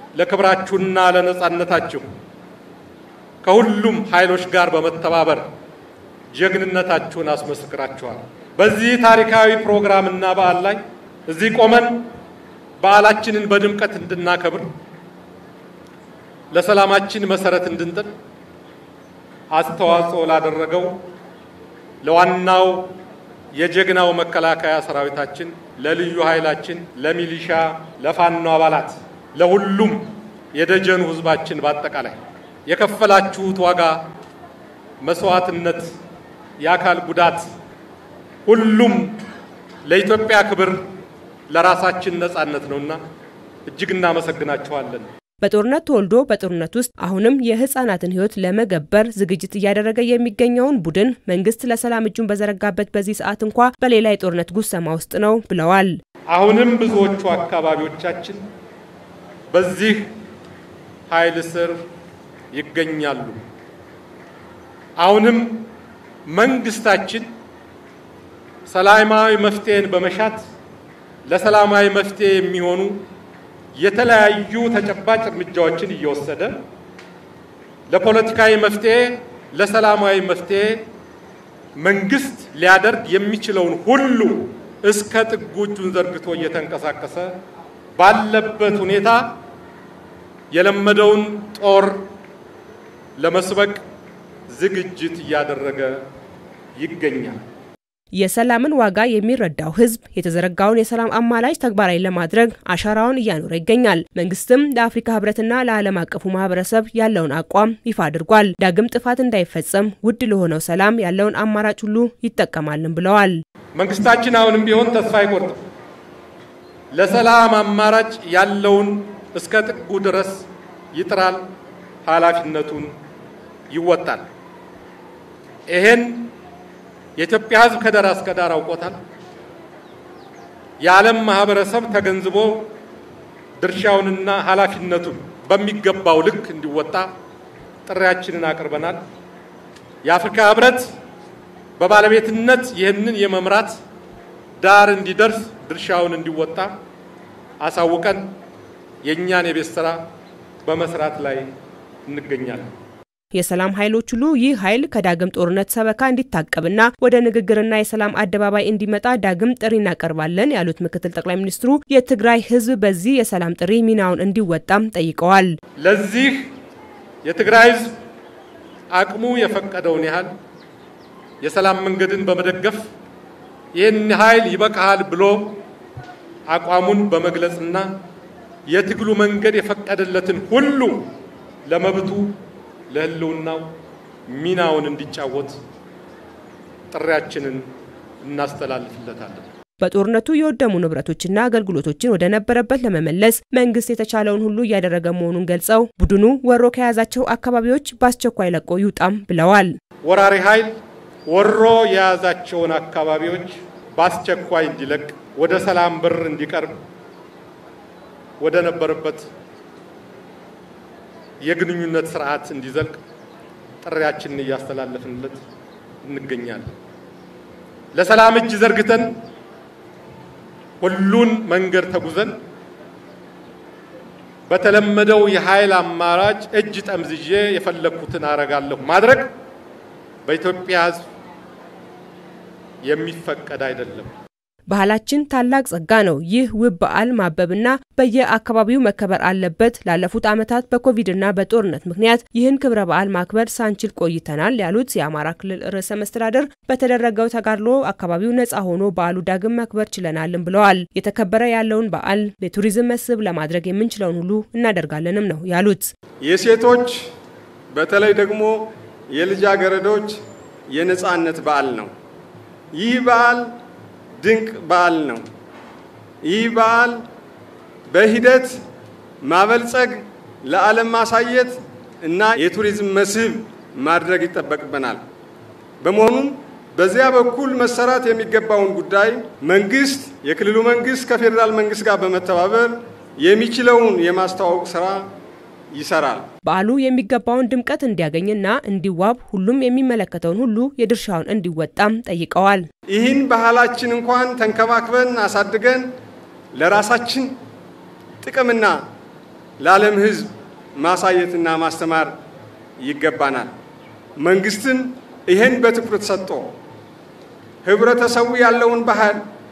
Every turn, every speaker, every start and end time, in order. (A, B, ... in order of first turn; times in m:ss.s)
0:00.2-0:02.1 A
0:03.4-0:05.5 A
0:06.3-0:12.1 A
0:12.8-0:14.8 A
0:16.5-0:18.1 A
0:19.5-0:21.0 A
0:22.0-0:22.9 A
0:23.6-0:34.1 A
0:35.0-0:35.9 A
0:36.6-0:37.5 A
0:38.5-0:39.2 A
0:39.8-0:40.9 A
0:41.5-0:43.0 A
0:43.7-0:45.1 A
0:45.4-0:56.0 B
0:56.3-0:58.4 A
0:59.5-1:00.1 A
1:01.1-1:01.8 A
1:02.5-1:03.4 A
1:05.0-1:05.7 A
1:06.3-1:07.3 A
1:08.7-1:10.4 A
1:11.3-1:13.1 A
1:13.8-1:16.6 A
1:17.9-1:20.9 A
1:21.8-1:27.4 A
1:28.0-1:29.4 A
1:30.5-1:32.1 A
1:33.2-1:33.8 A
1:34.5-1:36.0 A
1:36.8-1:37.4 A
1:38.1-1:53.4 B
1:53.8-1:55.6 A
1:56.9-2:01.5 A
2:02.0-2:02.9 A
2:03.7-2:04.2 A
2:05.7-2:06.3 A
2:07.2-2:09.0 A
2:10.8-2:12.7 A
2:13.6-2:17.1 A
2:17.9-2:19.0 A
2:20.0-2:20.9 A
2:21.8-2:23.8 A
2:24.6-2:26.8 A
2:27.6-2:28.4 A
2:29.0-2:30.1 A
2:30.6-2:31.5 A
2:32.1-2:32.7 A
2:33.3-2:45.6 B
2:45.8-2:46.5 A
2:47.2-2:48.0 A
2:48.9-2:50.3 A
2:51.4-2:52.9 A
2:53.7-2:55.6 A
2:56.5-2:58.0 A
2:58.7-3:01.1 A
3:01.7-3:02.4 A
3:02.9-3:03.7 A
3:04.3-3:05.6 A
3:06.9-3:07.7 A
3:08.2-3:09.5 A
3:09.8-3:19.8 B
3:20.0-3:26.8 A
3:28.4-3:29.3 A
3:31.4-3:33.0 A
3:33.8-3:35.4 A
3:36.0-3:36.7 A
3:37.9-3:39.2 A
3:40.8-3:42.4 A
3:44.5-3:49.3 A
3:50.2-3:51.0 A
3:52.8-3:54.1 A
3:54.7-4:15.9 B
4:16.2-4:17.1 C
4:17.7-4:20.2 C
4:20.7-4:21.9 C
4:22.7-4:23.5 C
4:24.2-4:25.3 C
4:26.2-4:27.0 C
4:27.9-4:28.6 C
4:29.2-4:35.0 C
4:35.8-4:45.1 C
4:45.7-4:46.3 C
4:46.5-4:52.7 B
4:52.9-4:55.9 C
4:56.5-4:57.4 C
4:58.2-4:58.8 C
4:59.6-5:02.1 C
5:02.8-5:03.5 C
5:04.2-5:06.5 C
5:07.6-5:09.2 C